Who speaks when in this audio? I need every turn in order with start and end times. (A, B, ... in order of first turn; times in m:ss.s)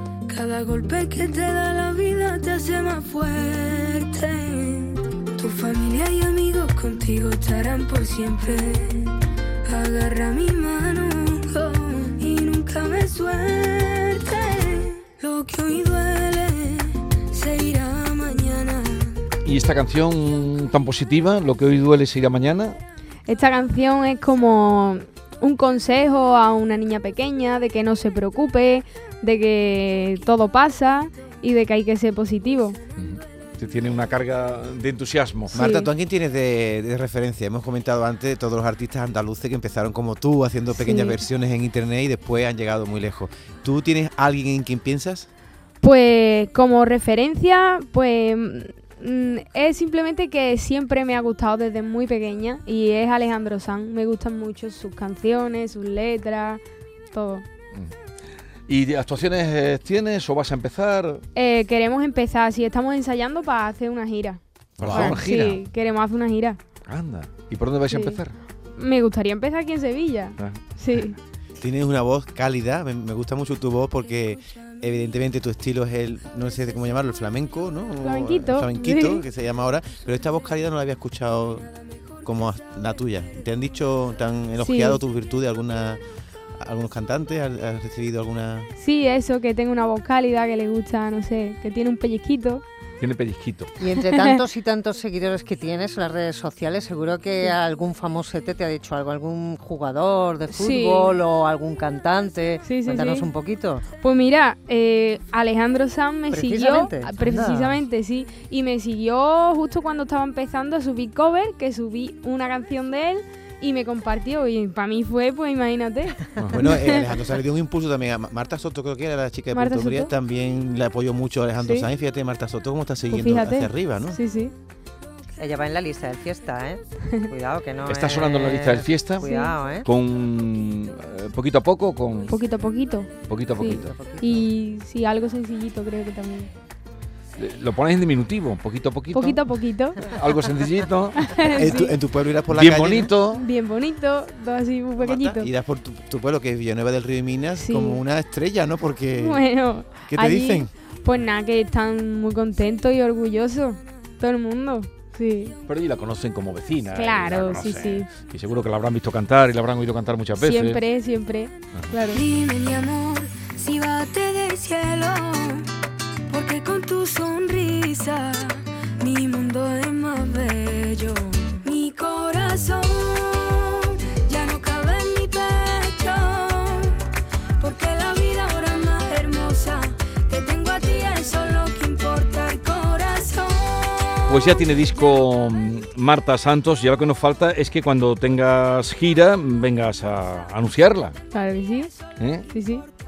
0:00.3-0:19.3 A
0:19.4-0:22.8 B
0:23.3-0:32.8 C
0:33.0-0:35.5 B
0:35.5-0:45.3 D
0:35.5-0:35.9 C
0:40.7-0:41.2 C
0:45.8-0:57.4 C
0:58.7-1:01.2 B
1:01.3-1:06.6 C
1:04.8-1:05.6 B
1:04.8-1:05.2 D
1:06.9-1:08.4 B
1:07.9-1:08.2 C
1:08.8-1:11.2 C
1:11.6-1:21.7 D
1:18.0-1:19.2 C
1:22.2-1:26.0 D
1:24.6-1:25.0 C
1:26.6-1:28.7 D
1:28.8-1:32.6 C
1:33.0-1:33.8 B
1:33.8-1:43.8 E
1:34.1-1:34.4 C
1:40.5-1:41.2 C
1:42.6-1:43.3 C
1:44.0-1:57.1 C
1:46.3-1:47.8 E
1:56.5-2:04.2 D
1:59.5-2:00.1 C
2:01.6-2:01.9 C
2:03.1-2:04.5 C
2:05.4-2:09.9 E
2:07.8-2:09.3 B
2:09.2-2:09.5 C
2:09.8-2:12.3 B
2:12.3-2:16.5 C
2:13.2-2:13.9 B
2:13.6-2:14.5 E
2:17.4-2:19.4 B
2:19.1-2:20.1 C
2:20.0-2:21.5 B
2:21.2-2:22.0 C
2:21.5-2:23.1 D
2:22.5-2:23.4 B
2:23.3-2:25.5 C
2:25.0-2:29.4 D
2:27.6-2:28.0 C
2:29.1-2:35.6 C
2:30.0-2:30.7 D
2:35.7-2:40.8 B
2:36.9-2:38.1 C
2:40.4-2:42.2 C
2:42.1-2:45.7 A
2:46.3-2:57.0 A
2:57.6-3:04.6 A
3:04.3-3:11.2 B
3:11.3-3:11.9 C
3:12.2-3:12.5 B
3:12.5-3:12.9 C